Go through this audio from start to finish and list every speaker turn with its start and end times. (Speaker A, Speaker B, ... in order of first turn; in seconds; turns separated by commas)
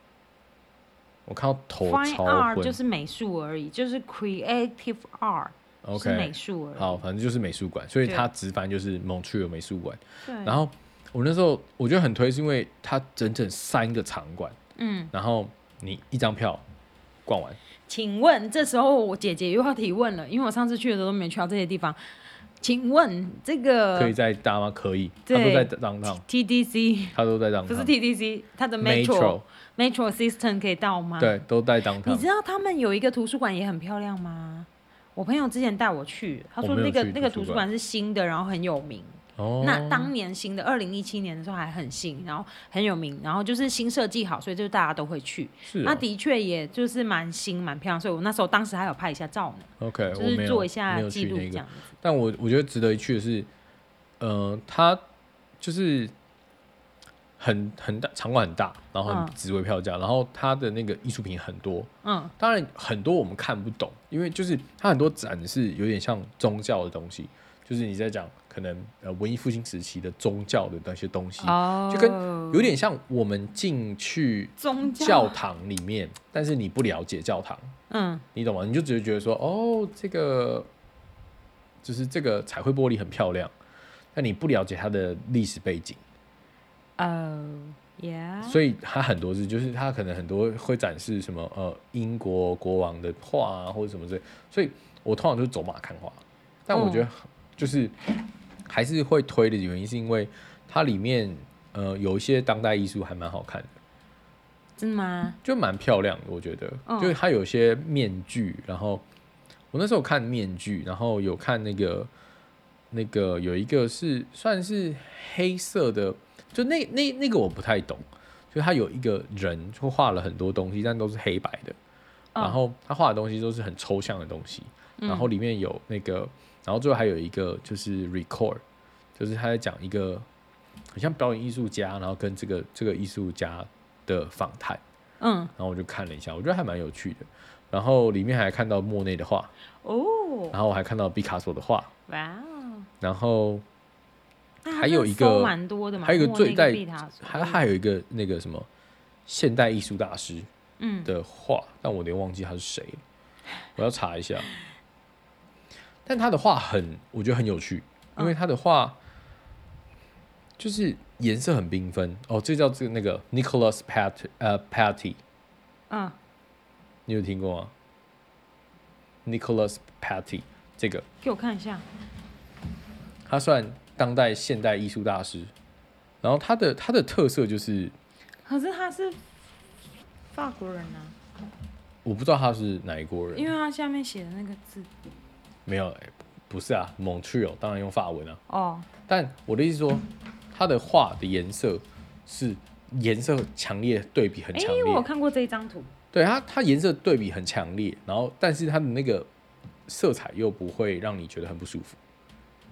Speaker A: 1.3-2.8, Speaker B: 1.8-7.0, Speaker A: 5.8-14.6, Speaker B: 10.2-10.6, Speaker B: 14.8-15.1, Speaker A: 15.1-16.6, Speaker A: 17.2-17.6, Speaker B: 17.9-22.0, Speaker B: 22.6-24.1, Speaker A: 23.9-26.2, Speaker B: 25.3-31.4, Speaker A: 27.1-27.9, Speaker A: 28.8-29.4, Speaker A: 31.2-32.3, Speaker B: 32.0-51.8, Speaker A: 36.6-37.6, Speaker A: 39.4-40.1, Speaker A: 45.6-46.0, Speaker A: 49.8-53.5, Speaker A: 54.2-55.0, Speaker A: 55.6-56.1, Speaker A: 57.4-77.7, Speaker B: 59.0-59.3, Speaker B: 62.0-62.3, Speaker B: 71.4-72.7, Speaker B: 74.6-75.3, Speaker B: 77.9-78.2, Speaker A: 78.3-80.7, Speaker A: 81.8-83.5, Speaker A: 84.1-86.0, Speaker B: 87.0-88.6, Speaker A: 88.4-98.0, Speaker B: 96.7-97.1, Speaker A: 98.7-103.7, Speaker B: 104.8-105.4, Speaker A: 105.4-109.0, Speaker B: 106.8-107.2, Speaker A: 109.7-112.1, Speaker A: 112.9-121.8, Speaker A: 122.4-128.6, Speaker B: 125.0-125.3, Speaker A: 129.2-130.2, Speaker A: 130.9-134.8, Speaker B: 135.2-135.5, Speaker A: 135.6-139.5, Speaker B: 139.8-140.6, Speaker A: 140.5-141.9, Speaker B: 142.1-142.9, Speaker A: 143.0-143.6, Speaker B: 144.6-147.6, Speaker A: 144.7-148.7, Speaker A: 149.3-150.5, Speaker B: 150.8-151.1, Speaker A: 151.0-153.0, Speaker A: 153.8-154.5, Speaker A: 156.1-159.0, Speaker A: 160.6-165.2, Speaker B: 165.9-166.2, Speaker A: 167.1-167.7, Speaker A: 169.2-171.1, Speaker B: 171.2-171.8, Speaker A: 173.2-175.5, Speaker A: 176.2-177.9, Speaker B: 178.4-179.2, Speaker B: 180.3-181.2, Speaker A: 182.0-183.5, Speaker B: 183.3-184.9, Speaker A: 185.7-188.4, Speaker B: 188.5-188.9, Speaker A: 189.1-195.1, Speaker B: 194.5-195.9, Speaker A: 196.1-199.3, Speaker A: 199.9-202.0